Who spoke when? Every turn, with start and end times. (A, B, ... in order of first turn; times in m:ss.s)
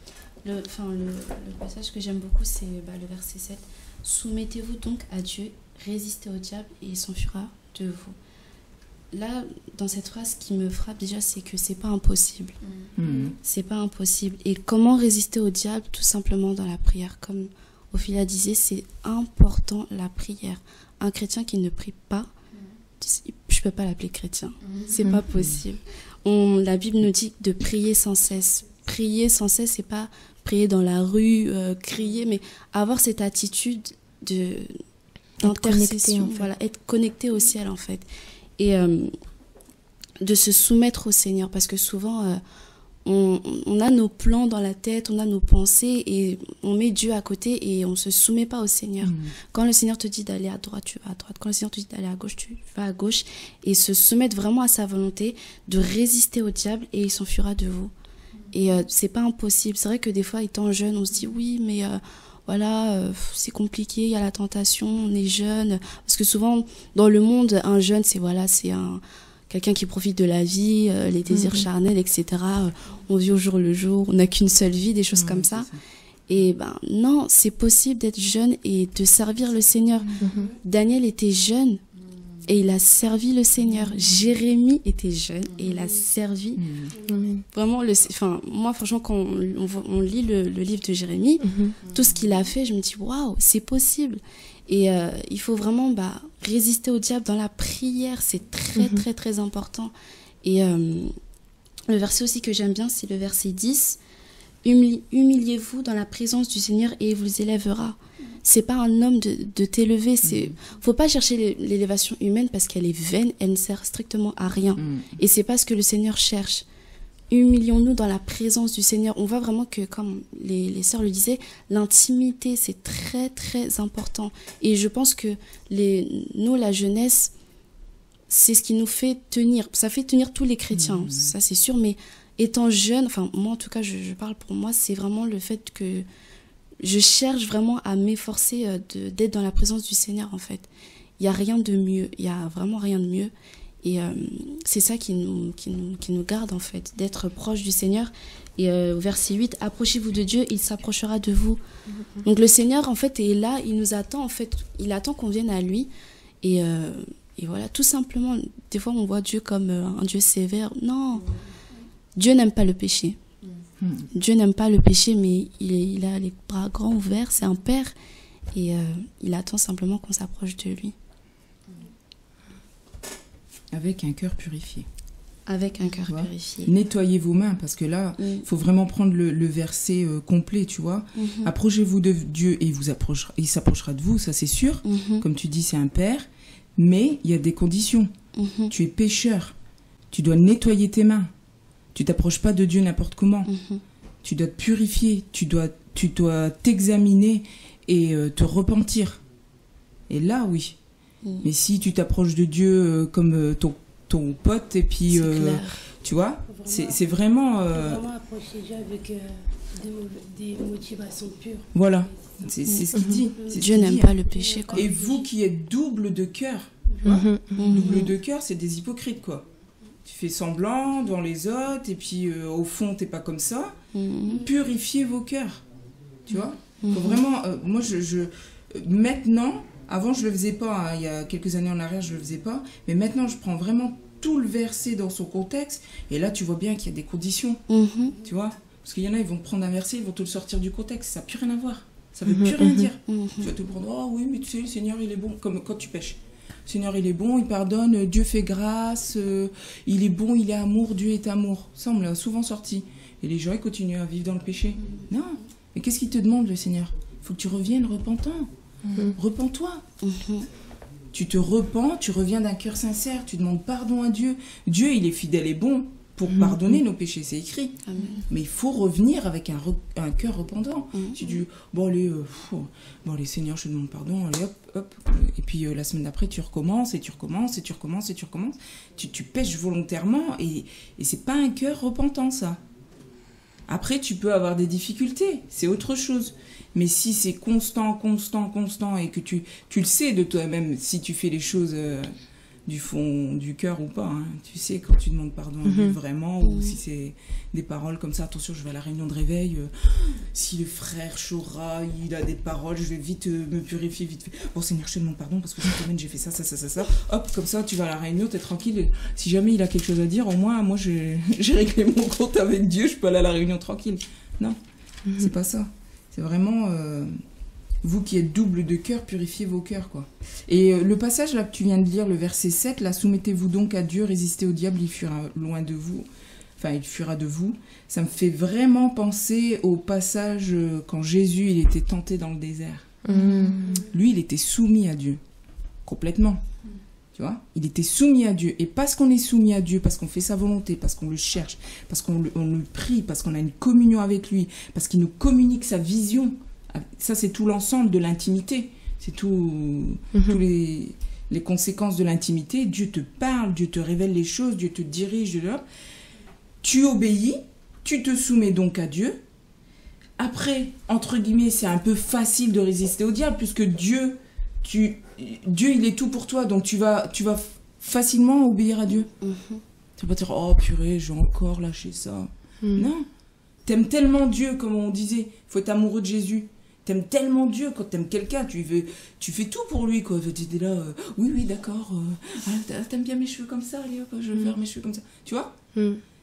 0:00.4-0:08.2 A
0:09.1-0:12.6 A
0:13.0-0:13.4 B
0:13.4-0:22.3 A
0:23.0-0:34.8 A
0:25.1-0:25.6 B
0:35.4-0:36.5 C
0:35.4-0:38.0 A
0:38.6-0:39.2 A
0:40.2-0:42.4 A
0:43.0-0:57.9 A
0:49.0-0:49.3 B
0:58.5-1:15.7 A
1:11.3-1:11.6 C
1:15.2-1:15.8 B
1:16.3-1:21.8 A
1:20.2-1:20.5 C
1:22.4-1:26.6 A
1:26.6-1:26.9 B
1:27.1-1:27.4 C
1:27.5-1:41.2 A
1:31.4-1:31.8 C
1:38.8-1:39.0 C
1:41.9-1:44.0 A
1:44.6-1:56.6 A
1:50.3-1:50.5 B
1:54.8-1:55.1 B
1:57.3-2:07.3 A
2:08.3-2:16.1 A
2:10.7-2:11.3 B
2:16.8-2:20.7 A
2:21.2-2:23.3 A
2:23.8-2:31.6 A
2:32.2-2:35.9 A
2:36.4-2:41.4 A
2:42.2-2:43.2 A
2:43.8-2:44.1 B
2:44.1-2:47.9 A
2:48.5-2:51.0 A
2:53.7-2:54.9 B
2:55.5-2:56.7 A
2:56.1-3:08.1 B
2:58.2-2:58.4 A
3:01.2-3:01.5 A
3:04.8-3:05.2 A
3:08.4-3:08.7 A
3:08.7-3:09.6 B
3:10.1-3:11.3 B
3:11.9-3:13.5 B
3:13.5-3:13.8 A
3:14.2-3:19.2 B
3:20.1-3:20.8 B
3:21.4-3:28.0 B
3:25.1-3:25.8 A
3:26.5-3:27.0 D
3:27.7-3:31.7 D
3:31.7-3:34.1 B
3:32.7-3:34.8 A
3:32.9-3:33.2 C
3:34.3-3:35.2 D
3:34.7-3:39.5 B
3:36.9-3:37.3 D
3:37.0-3:37.7 C
3:37.6-3:38.1 A
3:40.0-3:43.8 B
3:43.9-3:44.4 A
3:44.4-3:45.6 B
3:46.3-3:57.6 B
3:46.8-3:47.2 A
3:57.7-3:58.2 A
3:58.2-4:18.5 B
4:02.3-4:02.9 C
4:03.1-4:03.5 A
4:19.2-4:19.8 B
4:20.0-4:20.5 A
4:21.1-4:42.6 B
4:26.3-4:26.7 C
4:27.9-4:28.2 A
4:43.7-4:52.1 B
4:52.7-5:14.6 B
4:55.6-4:56.0 C
4:56.4-4:56.8 A
5:15.2-5:17.2 B
5:17.8-5:26.1 B
5:26.6-5:35.2 B
5:33.1-5:33.8 C
5:35.8-5:36.4 B
5:37.2-5:55.6 B
5:50.1-5:50.4 C
5:56.6-5:59.2 B
6:00.2-6:09.1 B
6:09.2-6:09.6 A
6:10.0-6:13.1 B
6:13.6-6:25.6 B
6:25.8-6:26.0 C